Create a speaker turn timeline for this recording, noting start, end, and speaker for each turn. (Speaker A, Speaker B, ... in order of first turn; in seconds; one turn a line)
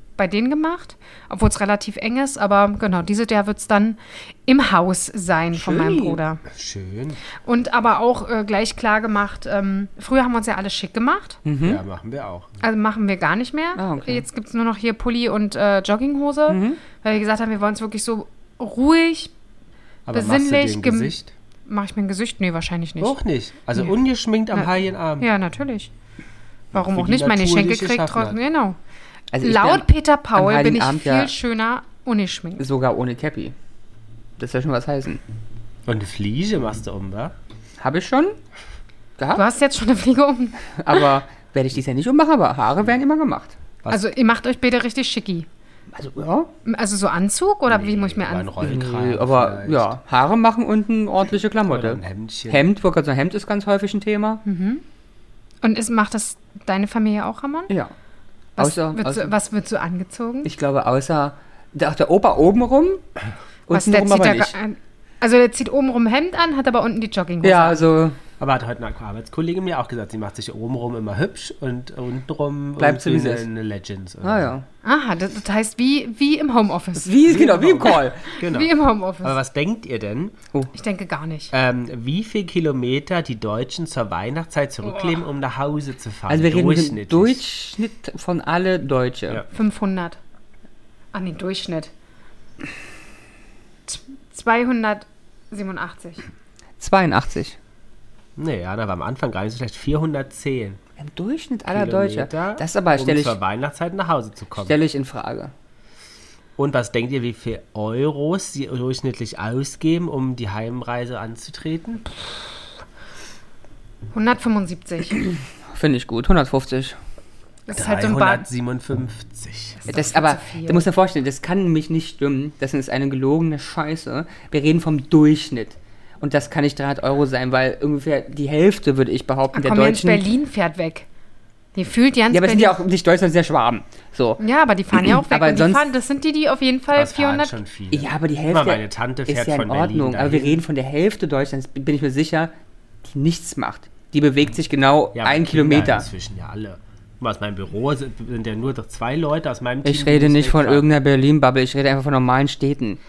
Speaker A: 0.2-6.4
Speaker B: 5.5-6.2
Speaker C: 6.5-7.2
Speaker A: 7.4-11.4
Speaker B: 11.4-11.8
Speaker C: 11.6-12.6
Speaker A: 12.6-19.3
Speaker B: 13.8-14.2
Speaker B: 16.5-16.8
Speaker C: 20.1-21.3
Speaker A: 20.1-21.1
Speaker A: 21.7-23.2
Speaker C: 23.0-25.3
Speaker A: 25.2-25.9
Speaker C: 26.7-28.4
Speaker A: 26.7-28.8
Speaker B: 29.3-31.3
Speaker A: 29.4-32.6
Speaker B: 32.6-33.5
Speaker B: 34.4-35.2
Speaker C: 35.9-37.3
Speaker B: 37.8-38.4
Speaker B: 39.2-39.4
Speaker A: 39.3-41.0
Speaker B: 40.7-43.5
Speaker A: 43.9-45.5
Speaker B: 45.9-46.5
Speaker A: 46.6-48.6
Speaker C: 47.7-49.9
Speaker B: 48.6-54.4
Speaker C: 51.7-52.6
Speaker A: 54.4-54.8
Speaker A: 55.6-57.7
Speaker A: 58.6-60.5
Speaker B: 58.6-59.3
Speaker B: 60.4-63.0
Speaker B: 63.7-64.5
Speaker A: 63.7-67.8
Speaker B: 67.4-68.2
Speaker C: 68.4-74.5
Speaker B: 72.8-73.4
Speaker B: 74.2-74.6
Speaker A: 74.8-77.3
Speaker B: 77.0-78.3
Speaker C: 77.2-80.3
Speaker A: 78.4-79.3
Speaker A: 80.7-81.5
Speaker C: 81.5-87.4
Speaker A: 84.8-85.2
Speaker B: 86.3-89.4
Speaker A: 89.5-90.2
Speaker A: 91.1-91.9
Speaker A: 93.9-96.2
Speaker B: 96.8-97.6
Speaker C: 98.4-100.8
Speaker B: 101.0-103.4
Speaker C: 101.7-104.7
Speaker B: 104.6-105.5
Speaker C: 106.6-112.1
Speaker A: 114.1-115.2
Speaker B: 115.7-117.0
Speaker A: 117.7-118.5
Speaker C: 117.7-119.8
Speaker A: 119.8-120.8
Speaker B: 119.9-130.3
Speaker A: 129.5-131.1
Speaker A: 131.7-132.8
Speaker B: 132.3-134.4
Speaker A: 134.4-137.6
Speaker B: 135.0-135.9
Speaker C: 136.9-140.6
Speaker B: 137.9-142.5
Speaker B: 143.1-146.1
Speaker C: 145.1-150.8
Speaker B: 149.8-153.0